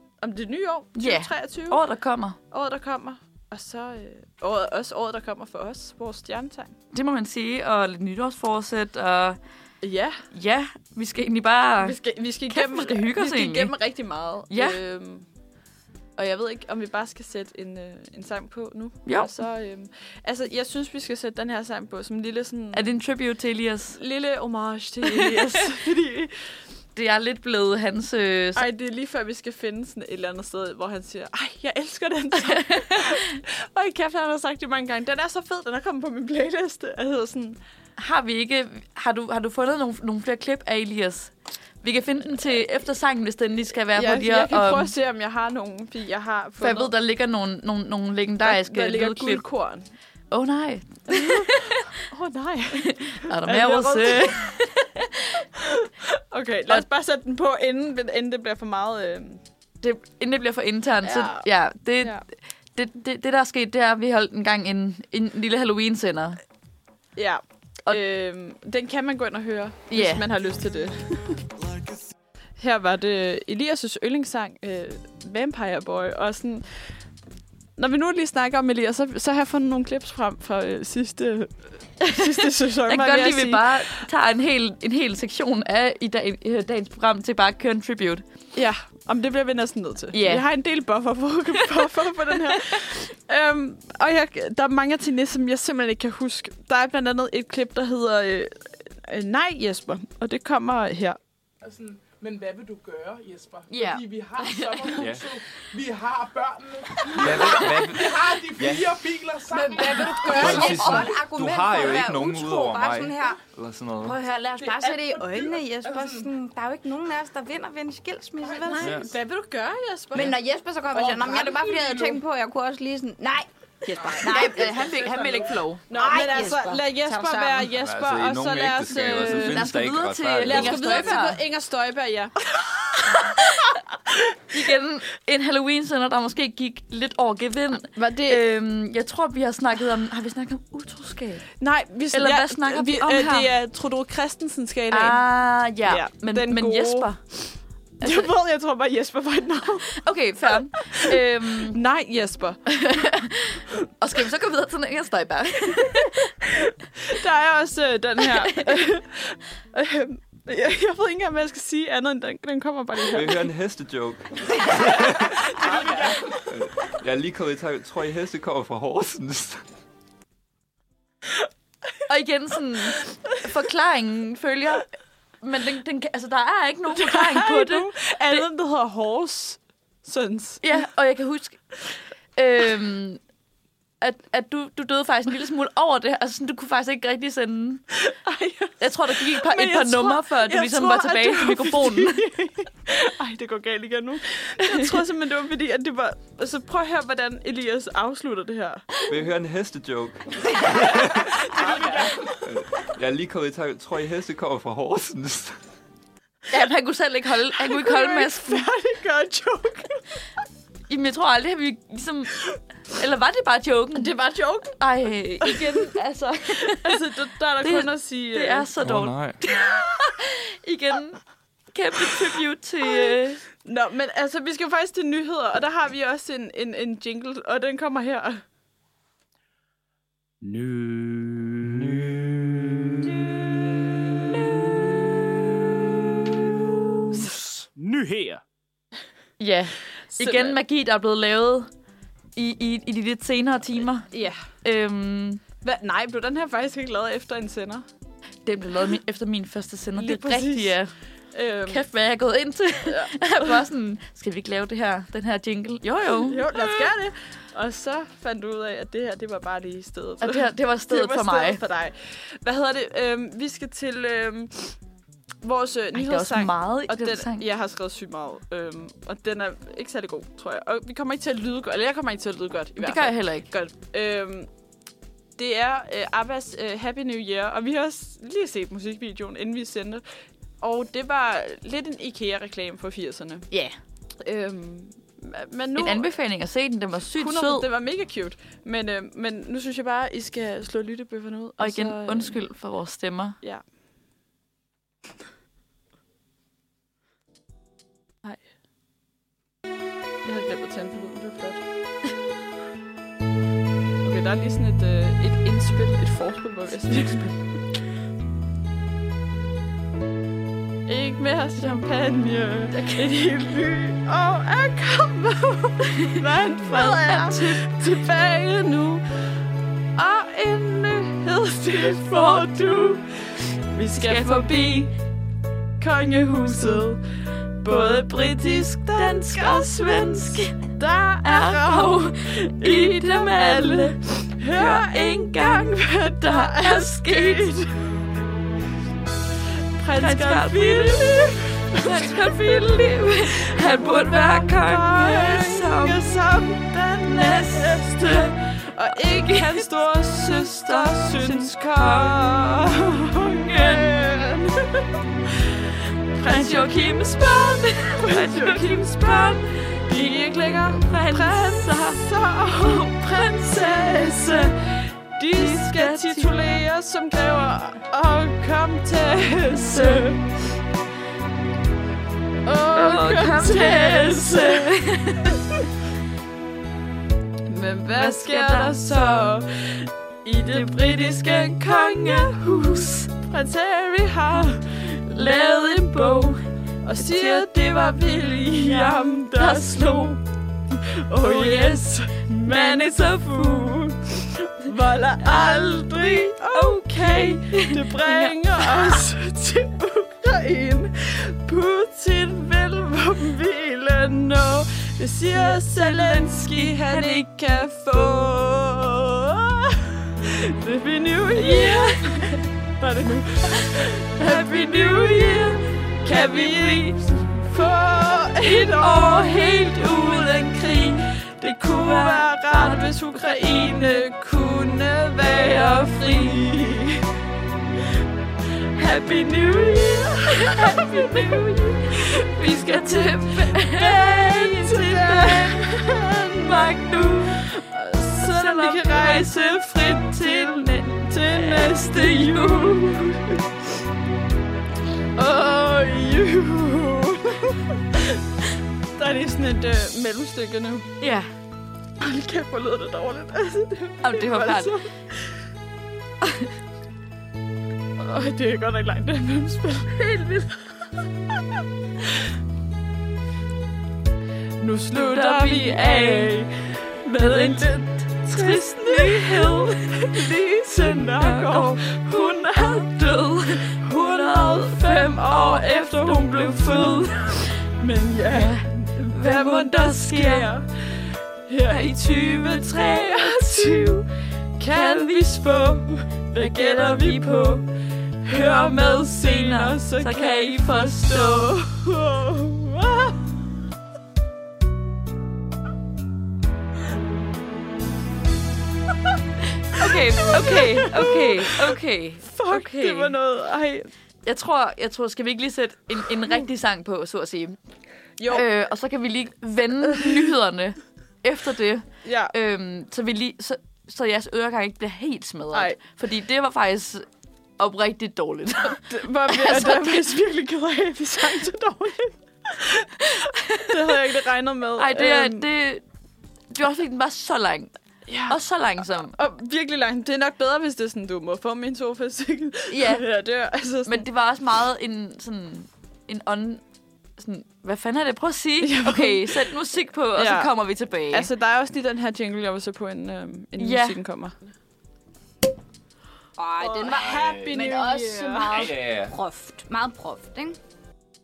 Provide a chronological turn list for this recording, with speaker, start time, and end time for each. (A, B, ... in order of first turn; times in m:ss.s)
0:00.2-0:01.8 A
0:01.0-0:02.4 B
0:02.5-0:06.8 A
0:06.9-0:09.4 B
0:09.8-0:10.3 A
0:10.3-0:13.8 B
0:11.8-0:15.2 A
0:14.5-0:14.8 B
0:16.2-0:22.9 A
0:19.0-0:19.3 B
0:22.7-0:24.0 B
0:23.9-0:26.3 A
0:25.0-0:25.6 B
0:26.9-0:28.6 B
0:28.5-0:37.6 A
0:32.4-0:33.2 B
0:38.0-0:44.9 B
0:43.9-0:46.9 A
0:46.6-0:49.4 B
0:48.4-0:49.9 A
0:50.3-0:51.8 B
0:51.1-0:54.6 A
0:52.8-0:55.4 B
0:55.4-0:59.4 A
0:59.8-1:06.4 B
1:01.0-1:01.5 A
1:07.2-1:11.4 A
1:09.9-1:10.2 B
1:12.6-1:16.8 A
1:17.8-1:24.1 A
1:22.1-1:28.2 B
1:28.5-1:41.2 A
1:30.1-1:30.5 B
1:41.6-1:51.1 C
1:43.7-1:45.1 B
1:45.0-1:45.3 D
1:47.1-1:49.2 D
1:49.5-1:53.4 E
1:49.5-1:51.0 A
1:50.2-1:54.2 D
1:54.0-1:59.1 E
1:54.6-1:56.3 C
1:58.4-1:59.0 C
1:58.8-2:00.3 A
1:58.8-1:59.1 D
2:00.1-2:05.0 E
2:00.9-2:02.2 C
2:04.0-2:05.6 C
2:04.1-2:05.8 B
2:05.9-2:09.8 A
2:05.9-2:07.7 E
2:07.7-2:11.0 D
2:09.2-2:11.4 B
2:10.4-2:13.7 A
2:13.1-2:13.8 B
2:14.5-2:21.5 B
2:17.8-2:18.4 A
2:21.6-2:25.2 A
2:22.1-2:23.5 B
2:24.9-2:27.2 B
2:25.8-2:32.8 A
2:28.0-2:28.3 B
2:29.9-2:31.8 B
2:32.7-2:36.3 B
2:36.4-2:43.4 A
2:38.2-2:38.8 B
2:43.1-2:45.7 D
2:44.9-2:46.2 A
2:45.6-2:46.4 C
2:46.4-2:49.6 D
2:52.1-2:54.9 B
2:55.4-2:58.4 B
2:56.9-3:00.8 A
3:00.6-3:01.6 B
3:02.4-3:03.2 B
3:04.0-3:07.8 B
3:07.9-3:19.0 A
3:08.8-3:12.2 B
3:14.6-3:15.0 B
3:19.0-3:25.6 D
3:21.5-3:22.2 A
3:21.7-3:22.2 C
3:26.5-3:28.7 B
3:27.6-3:30.1 A
3:30.9-3:34.1 B
3:33.9-3:34.8 A
3:34.7-3:37.0 B
3:35.4-3:35.9 A
3:36.6-3:38.7 A
3:37.6-3:43.4 B
3:38.8-3:39.4 D
3:43.6-3:48.4 A
3:50.4-3:53.3 F
3:54.3-3:54.8 F
3:57.1-3:57.4 A
3:57.1-3:58.4 F
3:59.4-4:01.7 B
4:00.1-4:00.6 A
4:02.4-4:05.4 B
4:04.1-4:04.4 A
4:05.6-4:07.8 A
4:08.4-4:10.9 B
4:10.0-4:10.8 A
4:11.3-4:11.8 A
4:11.7-4:16.9 B
4:12.8-4:13.6 A
4:16.1-4:24.8 A
4:20.2-4:21.6 B
4:25.4-4:34.5 A
4:25.9-4:27.4 B
4:32.8-4:33.4 B
4:35.4-4:40.0 A
4:40.6-4:43.5 A
4:43.5-4:43.8 B
4:44.2-4:46.1 A
4:45.7-4:47.7 B
4:47.1-4:52.4 A
4:51.6-4:53.4 B
5:00.2-5:01.6 A
5:04.0-5:07.4 A
5:06.9-5:07.3 B
5:10.9-5:19.0 A
5:11.6-5:11.8 B
5:12.7-5:13.0 B
5:16.6-5:17.8 B
5:20.0-5:24.9 A
5:24.0-5:24.9 B
5:25.8-5:27.0 A
5:27.6-5:37.9 A
5:27.7-5:30.6 B
5:31.2-5:34.0 B
5:34.5-5:37.5 B
5:39.8-5:54.9 A
5:40.0-5:46.1 B
5:47.0-5:52.6 B
5:53.5-5:53.9 B
5:56.1-6:10.3 A
5:56.2-6:02.0 B
6:02.6-6:04.5 B
6:05.3-6:06.4 B
6:09.6-6:10.1 B
6:12.4-6:14.7 A
6:12.7-6:15.4 B
6:17.5-6:30.2 A
6:17.9-6:19.2 B
6:21.7-6:23.0 B
6:25.1-6:26.4 B
6:27.0-6:27.6 B
6:28.5-6:30.2 B
6:30.7-7:07.0 A
6:31.2-6:33.8 B
6:35.2-6:39.0 B
6:45.3-6:47.3 B
6:51.3-6:52.4 B
6:53.5-6:57.0 B
6:58.4-7:04.0 B
7:05.2-7:06.4 B
7:08.8-7:16.7 A
7:09.7-7:17.4 B
7:17.4-7:23.4 A
7:18.2-7:23.0 B
7:25.2-7:28.2 A
7:29.0-7:30.9 A
7:31.0-7:31.3 B
7:32.0-7:35.3 A
7:34.0-7:34.7 B
7:36.2-7:36.5 B
7:38.0-7:40.8 A
7:44.6-7:53.0 A
7:44.9-7:46.4 B
7:47.1-7:57.5 B
7:53.7-8:04.0 A
7:58.3-8:00.5 B
8:01.7-8:04.0 B
8:04.6-8:07.7 A
8:04.7-8:05.6 B
8:06.3-8:07.6 B
8:08.2-8:13.2 A
8:08.3-8:11.6 B
8:19.7-8:23.2 B
8:19.8-8:23.9 A
8:24.2-8:27.6 B
8:28.2-8:28.5 A
8:28.3-8:37.0 B
8:32.0-8:32.3 A
8:35.5-8:35.8 A
8:37.6-8:40.0 B
8:38.7-8:45.5 A
8:43.3-8:43.8 B
8:44.8-8:45.8 B
8:46.5-8:47.7 B
8:48.1-8:48.4 A
8:48.3-8:49.1 B
8:48.9-8:54.1 A
8:52.7-8:53.0 B
8:53.8-8:56.6 B
8:57.2-9:01.3 B
8:58.6-8:59.5 A
9:00.1-9:00.6 A
9:01.1-9:04.4 A
9:03.6-9:04.0 B
9:06.4-9:10.6 E
9:06.6-9:08.7 A
9:06.9-9:07.8 D
9:08.5-9:09.1 D